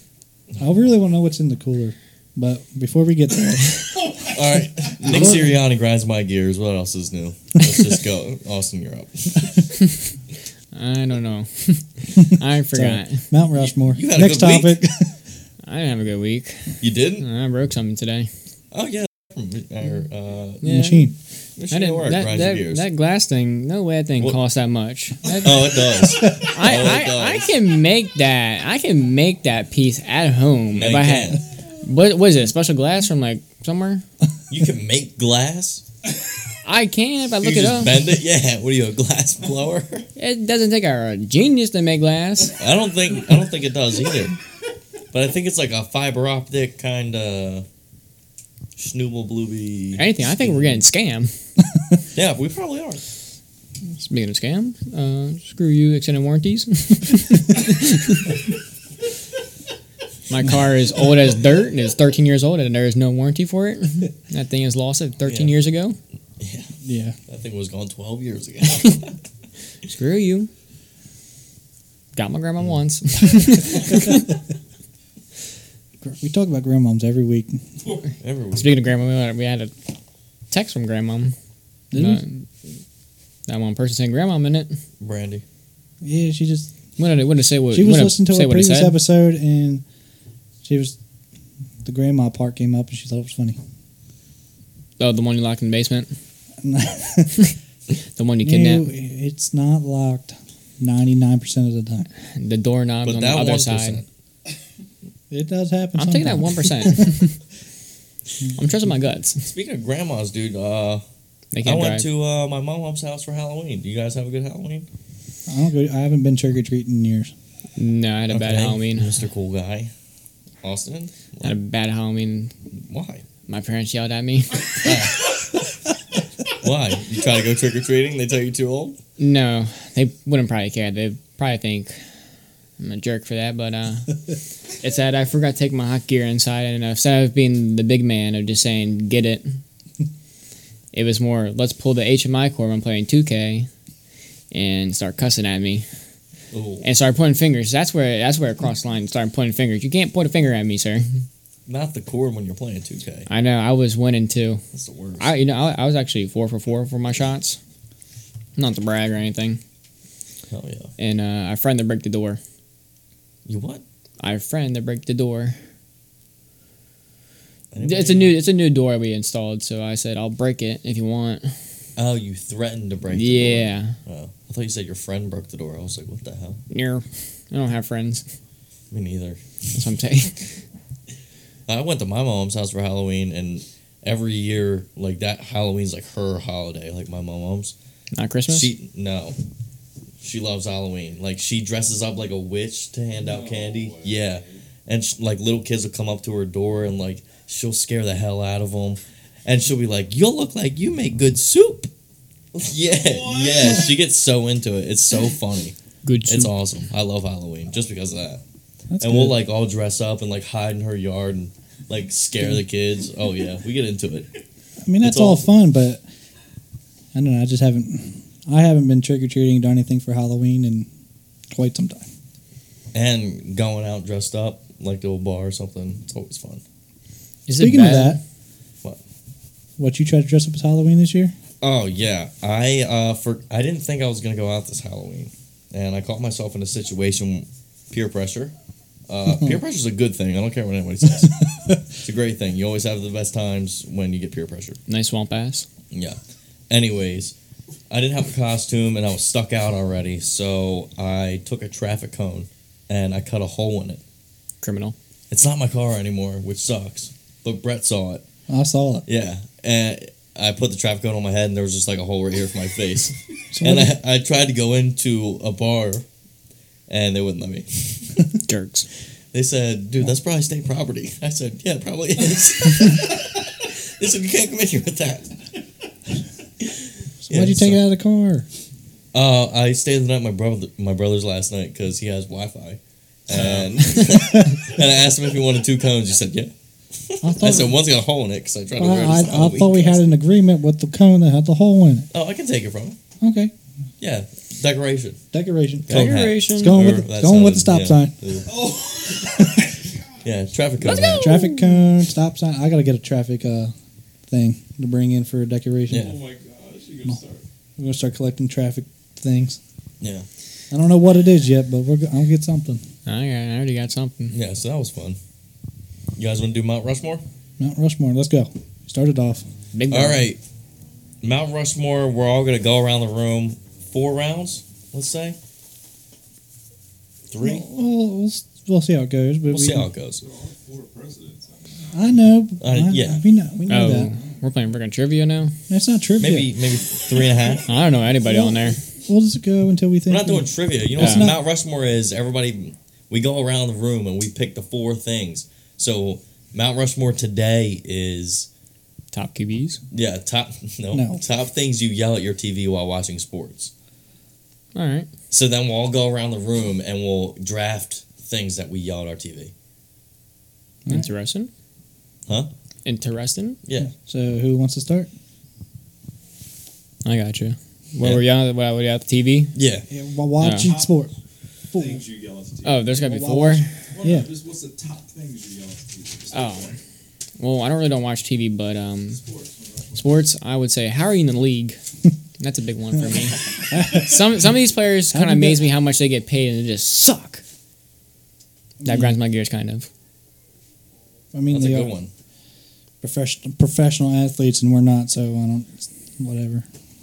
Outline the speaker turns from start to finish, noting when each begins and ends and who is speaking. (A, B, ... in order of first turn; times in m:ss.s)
0:00.6-0:03.9 A
0:03.9-0:05.2 B
0:04.3-0:09.5 C
0:05.1-0:05.4 A
0:10.7-0:13.3 D
0:12.7-0:15.2 A
0:13.6-0:14.8 C
0:15.6-0:18.3 D
0:16.8-0:17.2 C
0:18.7-0:20.6 C
0:20.6-0:21.1 D
0:20.6-0:21.1 A
0:21.6-0:22.8 C
0:21.7-0:34.0 D
0:25.4-0:27.5 C
0:30.7-0:31.4 C
0:34.5-0:35.8 C
0:36.6-0:38.0 D
0:37.4-0:40.1 C
0:40.2-0:42.6 D
0:42.6-0:44.4 C
0:45.1-0:47.6 C
0:48.8-0:50.8 C
0:50.0-0:51.3 D
0:52.1-0:53.0 C
0:53.9-0:58.3 D
1:00.3-1:06.0 D
1:05.2-1:05.5 C
1:06.4-1:06.7 C
1:06.8-1:07.2 A
1:07.3-1:09.2 C
1:09.8-1:10.5 D
1:12.1-1:14.3 D
1:16.0-1:17.6 A
1:18.2-1:18.8 C
1:18.5-1:19.7 D
1:20.5-1:21.4 D
1:21.9-1:22.2 A
1:21.9-1:22.4 D
1:23.5-1:24.8 D
1:25.0-1:25.4 C
1:26.0-1:26.7 A
1:27.0-1:29.0 D
1:27.7-1:29.8 A
1:30.6-1:31.0 A
1:31.8-1:33.6 A
1:35.0-1:36.1 D
1:36.6-1:37.5 A
1:38.1-1:38.9 D
1:38.4-1:42.1 A
1:42.4-1:44.0 D
1:43.0-1:44.0 C
1:45.3-1:47.2 A
1:46.0-1:47.4 D
1:48.6-1:49.4 D
1:49.4-1:51.0 C
1:51.5-1:52.1 D
1:51.6-1:54.9 C
1:55.5-1:57.3 A
1:57.8-1:59.1 D
1:58.3-1:59.9 C
2:00.6-2:01.5 C
2:01.4-2:02.5 D
2:02.8-2:03.2 C
2:03.5-2:05.1 D
2:04.8-2:05.3 C
2:06.6-2:09.0 C
2:09.2-2:12.0 D
2:12.8-2:19.6 D
2:20.9-2:23.7 D
2:24.5-2:25.8 D
2:26.5-2:26.9 C
2:26.8-2:31.1 D
2:31.7-2:33.3 C
2:33.3-2:34.6 D
2:34.7-2:35.3 C
2:35.2-2:37.6 D
2:38.6-2:39.6 D
2:40.5-2:40.9 C
2:41.0-2:42.4 D
2:43.4-2:43.8 C
2:44.2-2:45.6 D
2:47.7-2:48.4 C
2:47.8-2:51.5 D
2:52.0-2:56.6 C
2:53.1-2:53.9 D
2:56.7-2:58.2 D
2:58.9-2:59.4 C
2:59.7-3:00.4 D
3:01.7-3:07.7 C
3:08.1-3:08.7 D
3:08.5-3:09.4 C
3:10.2-3:21.9 C
3:13.2-3:14.6 B
3:22.5-3:28.4 C
3:22.8-3:24.0 B
3:26.0-3:26.6 D
3:28.9-3:29.4 A
3:29.0-3:34.3 C
3:34.8-3:36.0 A
3:35.0-3:35.5 C
3:37.1-3:40.9 A
3:41.5-3:42.1 A
3:42.9-3:46.6 C
3:47.5-3:48.2 D
3:47.6-3:48.2 A
3:49.8-3:51.3 A
3:51.6-3:58.5 C
3:59.1-4:04.8 C
4:04.9-4:05.7 D
4:05.9-4:06.2 C
4:06.7-4:07.4 C
4:07.9-4:14.0 C
4:14.6-4:14.9 D
4:15.3-4:18.2 C
4:18.5-4:19.0 A
4:19.1-4:26.0 C
4:23.5-4:24.0 A
4:26.9-4:28.2 C
4:28.4-4:28.9 D
4:29.3-4:35.3 C
4:36.6-4:37.8 C
4:37.2-4:38.4 A
4:39.1-4:50.2 C
4:47.2-4:47.8 A
4:48.8-4:52.1 A
4:52.1-4:53.0 C
4:53.2-4:53.5 A
4:54.0-4:55.2 C
4:55.3-4:58.2 A
4:55.8-4:58.5 C
4:55.9-4:56.9 D
4:58.4-5:00.3 B
5:00.2-5:01.3 C
5:00.8-5:01.8 D
5:01.2-5:03.7 A
5:04.3-5:06.1 A
5:05.9-5:06.2 C
5:05.9-5:07.4 B
5:07.8-5:09.6 A
5:10.0-5:10.3 C
5:10.7-5:12.8 A
5:13.1-5:14.4 D
5:14.3-5:15.2 C
5:16.2-5:17.2 C
5:17.6-5:19.4 A
5:19.7-5:20.2 D
5:19.9-5:20.4 C
5:21.2-5:25.4 C
5:27.3-5:27.6 C
5:27.4-5:29.9 A
5:29.5-5:30.2 C
5:30.2-5:31.9 B
5:31.9-5:34.1 A
5:32.6-5:33.2 C
5:33.7-5:35.6 D
5:33.9-5:34.3 B
5:35.7-5:36.5 A
5:36.2-5:37.7 C
5:37.7-5:38.8 D
5:38.2-5:41.4 A
5:40.1-5:48.5 C
5:41.0-5:41.3 D
5:49.1-5:49.8 D
5:49.9-5:53.7 C
5:50.9-5:51.2 A
5:54.7-5:55.1 D
5:55.3-5:59.5 C
6:00.9-6:01.5 D
6:02.8-6:03.6 D
6:03.6-6:03.9 C
6:03.8-6:05.1 A
6:07.0-6:09.5 D
6:09.6-6:09.9 C
6:09.9-6:11.1 A
6:10.4-6:10.7 D
6:10.5-6:11.1 B
6:11.7-6:12.0 A
6:11.7-6:12.9 B
6:12.6-6:13.7 D
6:13.0-6:14.3 A
6:13.9-6:16.8 B
6:16.3-6:16.7 D
6:17.4-6:19.2 D
6:19.1-6:20.2 B
6:19.9-6:21.8 D
6:22.4-6:27.4 D
6:23.7-6:24.4 A
6:25.1-6:25.6 A
6:28.8-6:29.2 A
6:28.9-6:29.9 D
6:31.3-6:31.9 A
6:31.5-6:32.1 C
6:33.0-6:36.6 A